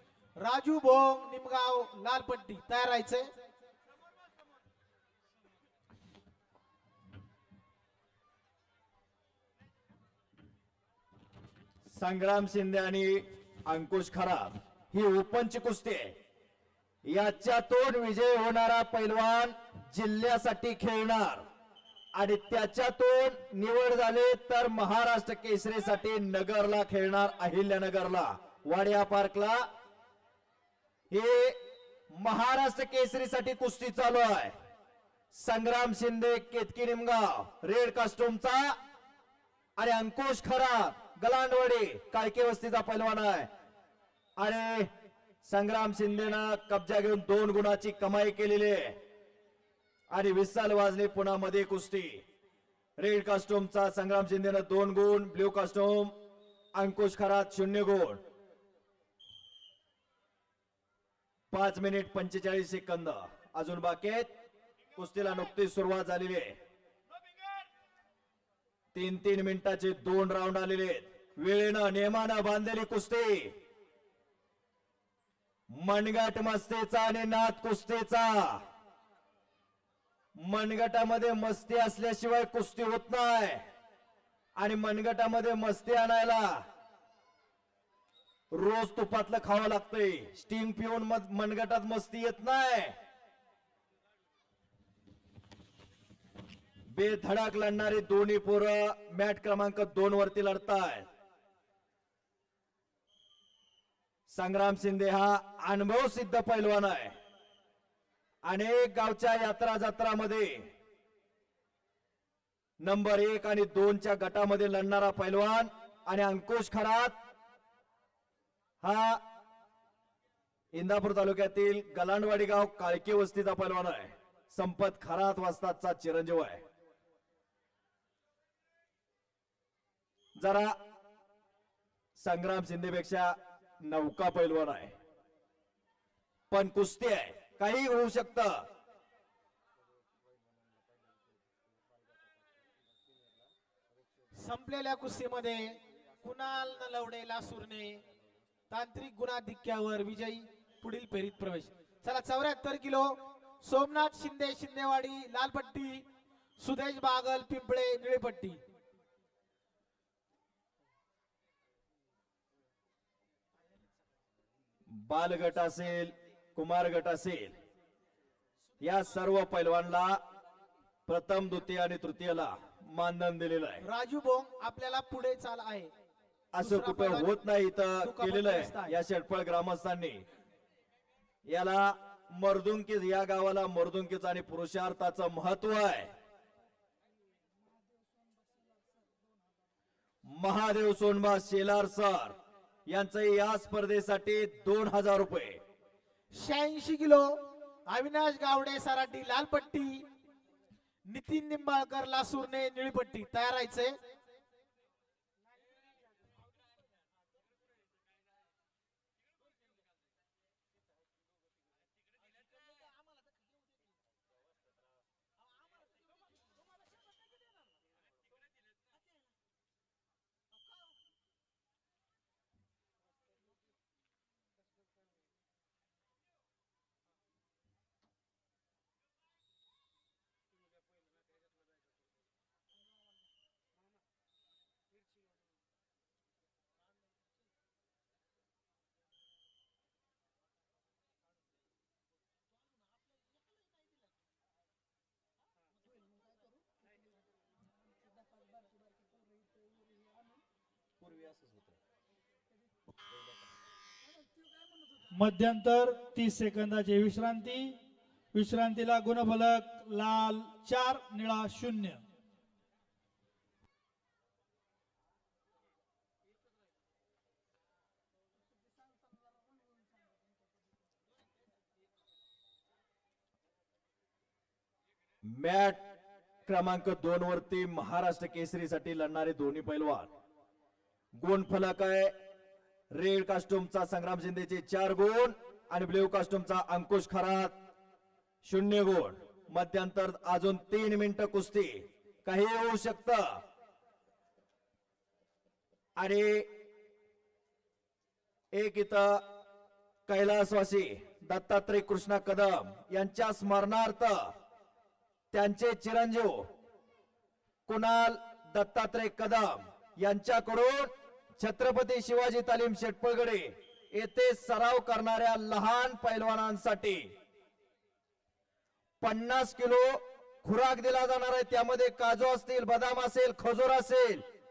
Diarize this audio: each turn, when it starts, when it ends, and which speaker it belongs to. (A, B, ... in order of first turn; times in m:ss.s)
0:00.4-0:03.3 A
0:11.9-0:16.1 B
0:17.0-0:21.4 B
0:22.1-0:29.7 B
0:31.1-0:31.6 B
0:32.1-0:34.5 B
0:35.3-0:38.8 B
0:39.8-0:43.5 B
0:44.4-0:44.9 B
0:45.4-0:49.0 B
0:50.1-0:52.2 B
0:53.0-0:56.1 B
0:56.7-0:58.2 B
1:01.5-1:04.3 B
1:05.0-1:06.6 B
1:08.9-1:13.5 B
1:15.7-1:18.6 B
1:20.4-1:23.6 B
1:24.6-1:26.6 B
1:28.5-1:32.9 B
1:36.9-1:41.1 B
1:44.3-1:47.2 B
1:48.4-1:50.6 B
1:52.8-1:57.2 B
1:58.8-1:59.2 B
2:00.7-2:06.6 B
2:10.4-2:10.8 B
2:12.2-2:14.9 B
2:16.5-2:18.6 B
2:24.4-2:28.0 A
2:28.7-2:36.0 A
2:36.6-2:38.6 A
2:44.9-2:47.6 B
2:48.8-2:50.2 B
2:51.1-2:53.8 B
2:53.8-2:55.9 A
2:56.5-3:00.2 B
2:56.6-2:57.3 A
2:58.0-2:59.0 A
3:01.4-3:06.1 B
3:10.2-3:12.4 B
3:12.9-3:15.6 B
3:16.3-3:17.4 A
3:17.9-3:20.0 A
3:21.1-3:24.0 A
4:11.0-4:11.7 B
4:15.1-4:17.7 C
4:18.3-4:22.0 C
4:35.2-4:35.8 B
4:36.4-4:40.1 B
4:41.2-4:42.1 B
4:42.9-4:47.6 B
4:48.4-4:53.4 B
4:56.0-4:56.5 B
4:58.5-4:59.2 B
5:00.1-5:04.3 B
5:05.3-5:06.5 B
5:07.7-5:17.1 B
5:19.0-5:24.2 B